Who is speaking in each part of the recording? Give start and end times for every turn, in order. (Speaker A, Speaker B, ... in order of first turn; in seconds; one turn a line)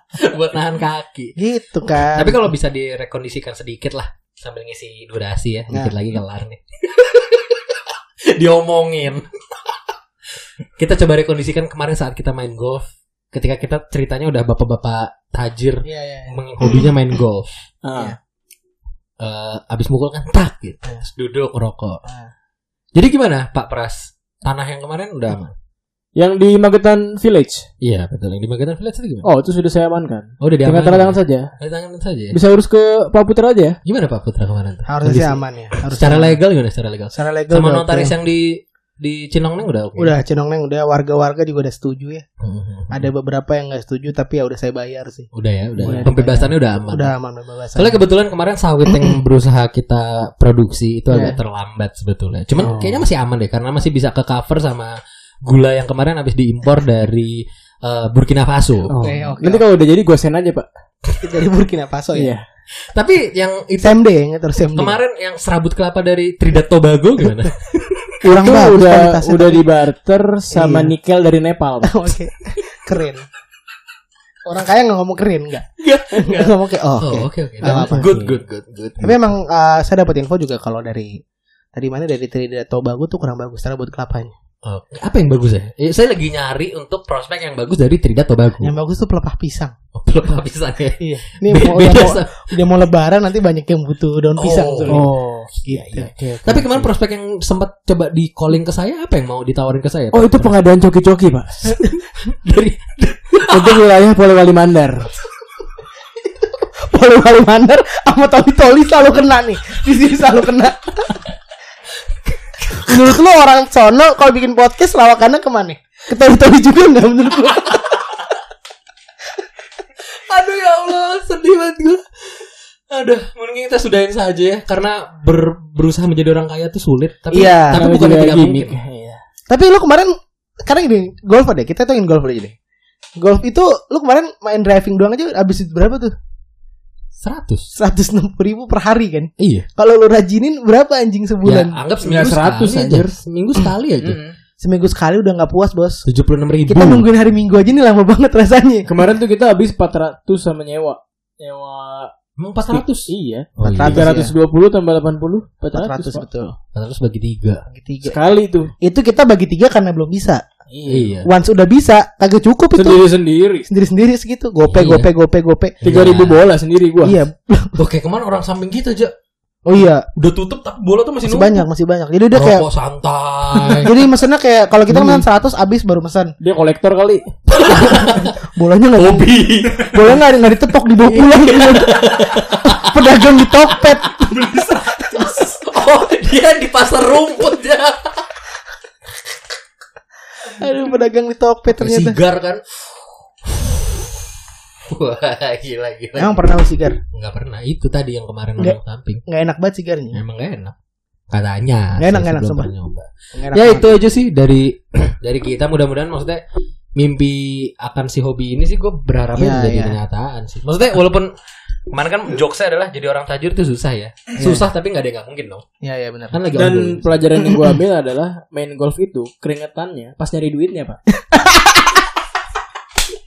Speaker A: 0.2-1.4
Speaker B: 1.4-2.5
Speaker A: 2.1-9.8
Speaker A: 10.8-17.7
Speaker B: 15.8-16.3
Speaker C: 17.8-18.2
Speaker A: 19.2-22.0
Speaker B: 22.1-22.3
Speaker A: 22.9-25.5
Speaker C: 26.2-27.7
Speaker A: 27.8-29.3
Speaker C: 29.2-31.5
Speaker A: 30.4-32.4
Speaker C: 32.3-33.8
Speaker A: 33.9-40.2
Speaker B: 34.9-36.4
Speaker B: 37.1-38.1
Speaker B: 40.0-42.2
Speaker A: 42.4-43.1
Speaker B: 42.9-45.3
Speaker A: 45.3-47.1
Speaker C: 45.8-46.1
Speaker B: 45.8-48.0
Speaker A: 47.8-59.0
Speaker C: 52.6-53.1
Speaker B: 58.9-59.6
Speaker C: 58.9-60.7
Speaker B: 61.2-62.3
Speaker C: 62.1-62.5
Speaker A: 62.9-64.0
Speaker B: 63.8-65.0
Speaker A: 64.8-68.0
Speaker B: 68.2-69.7
Speaker C: 68.2-72.1
Speaker B: 70.5-70.9
Speaker B: 71.8-73.2
Speaker B: 74.5-78.1
Speaker A: 75.8-79.2
Speaker C: 77.6-78.4
Speaker B: 79.0-81.2
Speaker B: 81.8-84.3
Speaker A: 84.6-88.7
Speaker B: 88.6-89.7
Speaker A: 89.9-92.7
Speaker B: 91.0-95.1
Speaker A: 94.4-95.1
Speaker C: 94.9-95.6
Speaker B: 95.7-96.9
Speaker A: 95.7-100.5
Speaker C: 96.1-96.7
Speaker C: 100.1-101.8
Speaker A: 101.7-103.8
Speaker C: 103.5-105.1
Speaker B: 106.8-111.2
Speaker A: 112.7-113.0
Speaker B: 112.8-118.0
Speaker A: 120.2-128.8
Speaker B: 127.3-127.8
Speaker C: 127.7-129.2
Speaker B: 129.5-132.6
Speaker B: 133.2-136.1
Speaker A: 137.2-137.7
Speaker B: 137.8-141.8
Speaker A: 139.4-139.7
Speaker A: 141.4-144.2
Speaker C: 142.0-143.2
Speaker C: 144.0-144.4
Speaker B: 144.6-146.1
Speaker A: 146.1-147.1
Speaker B: 146.7-148.9
Speaker C: 148.9-152.1
Speaker A: 152.4-154.1
Speaker C: 152.7-156.2
Speaker B: 153.6-154.3
Speaker B: 155.7-156.6
Speaker A: 156.7-157.7
Speaker B: 157.7-158.2
Speaker C: 158.0-158.7
Speaker B: 158.8-160.4
Speaker C: 160.7-161.2
Speaker A: 160.9-161.3
Speaker B: 161.2-163.0
Speaker C: 162.8-163.7
Speaker B: 163.7-165.8
Speaker A: 164.7-165.1
Speaker A: 165.8-166.4
Speaker C: 165.8-167.2
Speaker B: 167.0-167.8
Speaker A: 167.8-169.1
Speaker B: 169.7-170.1
Speaker A: 170.2-171.7
Speaker B: 171.3-172.7
Speaker A: 172.3-173.9
Speaker C: 173.6-173.9
Speaker B: 173.8-176.3
Speaker C: 174.9-175.2
Speaker C: 176.4-177.3
Speaker A: 177.5-178.3
Speaker B: 177.5-185.5
Speaker A: 179.0-180.1
Speaker A: 181.1-183.0
Speaker A: 183.7-188.3
Speaker B: 190.4-192.2
Speaker A: 191.8-194.1
Speaker A: 194.9-196.5
Speaker B: 196.2-197.0
Speaker A: 197.1-199.2
Speaker B: 198.6-200.2
Speaker A: 200.1-200.7
Speaker A: 201.3-206.4
Speaker B: 202.0-202.7
Speaker B: 203.3-203.9
Speaker A: 207.0-211.3
Speaker B: 209.3-210.0
Speaker A: 211.9-215.6
Speaker B: 214.4-214.7
Speaker B: 215.8-216.4
Speaker A: 216.3-217.1
Speaker C: 216.5-221.0
Speaker B: 221.3-222.0